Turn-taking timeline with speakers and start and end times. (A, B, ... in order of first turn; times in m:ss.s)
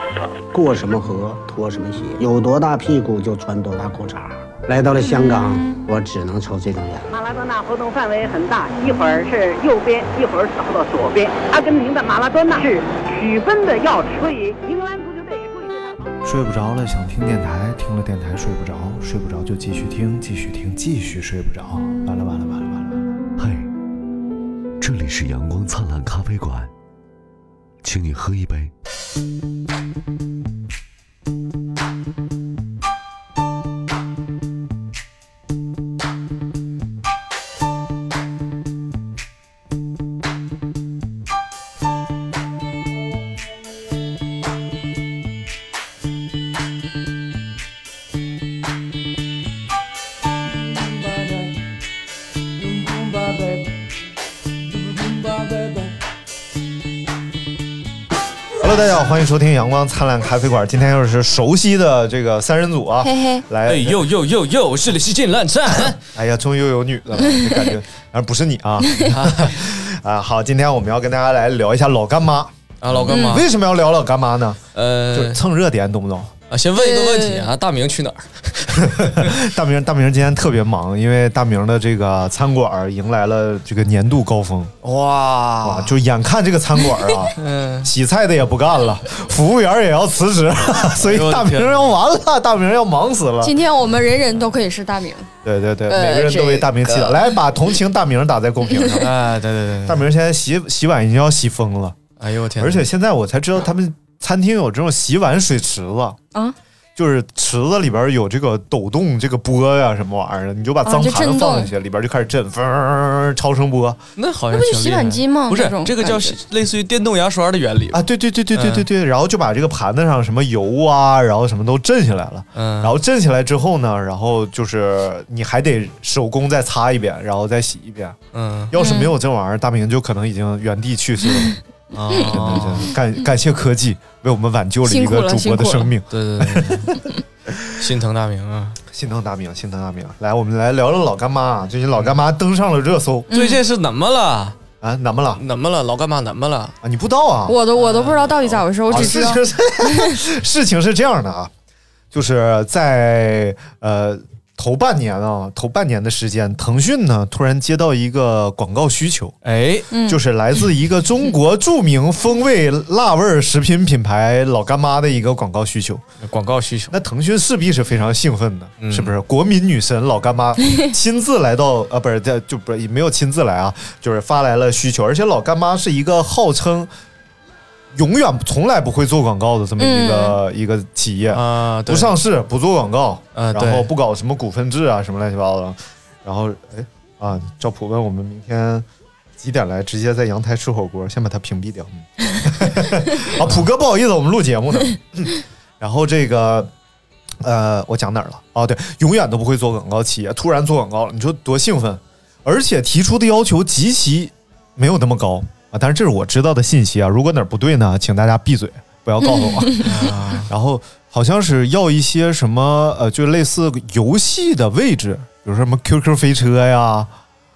0:00.5-0:07.1 A
0:07.1-0:16.2 B
0:16.2-0:23.0 C
0:23.4-0:23.7 D
0:24.8-0:26.7 D
0:27.8-0:28.7 D
0:51.1-0:51.5 E
0:52.8-0:53.5 E
0:55.1-0:55.7 E
0:58.6-1:04.0 C
1:03.0-1:03.4 F
1:03.6-1:06.0 E
1:06.1-1:16.3 C
1:09.0-1:09.6 E
1:12.8-1:13.5 E
1:13.1-1:13.4 F
1:14.7-1:15.4 E
1:16.5-1:19.4 E
1:16.8-1:17.5 F
1:18.8-1:24.7 C
1:24.8-1:26.0 E
1:25.6-1:33.6 C
1:27.4-1:27.9 E
1:31.0-1:31.9 E
1:33.4-1:35.3 F
1:35.4-1:39.1 C
1:35.9-1:37.2 F
1:38.7-1:39.0 F
1:39.0-1:40.0 E
1:39.8-1:42.0 C
1:42.2-1:42.9 E
1:42.6-1:46.2 C
1:47.0-1:54.0 C
1:50.8-1:51.7 F
1:54.2-1:58.8 E
1:54.5-1:56.4 F
1:57.9-2:08.2 C
2:02.5-2:03.0 E
2:08.3-2:08.7 E
2:08.7-2:11.5 C
2:08.7-2:09.1 F
2:11.9-2:12.9 E
2:12.1-2:17.8 C
2:12.1-2:12.6 F
2:14.8-2:15.9 F
2:16.1-2:16.9 E
2:17.7-2:18.8 E
2:18.9-2:23.3 C
2:23.3-2:23.6 F
2:23.3-2:24.6 E
2:24.8-2:25.4 C
2:25.4-2:26.7 E
2:26.8-2:27.6 C
2:27.5-2:30.2 F
2:27.7-2:29.2 E
2:28.9-2:31.5 C
2:32.1-2:39.3 C
2:39.4-2:39.9 E
2:39.9-2:40.2 F
2:40.0-2:46.0 C
2:46.2-2:46.9 E
2:46.9-2:56.9 C
2:48.8-2:49.1 E
2:57.9-3:08.8 C
2:59.8-3:00.4 F
3:01.3-3:02.1 E
3:03.3-3:03.9 E
3:09.4-3:16.7 C
3:17.4-3:37.1 C
3:29.2-3:29.9 F
3:29.8-3:30.5 E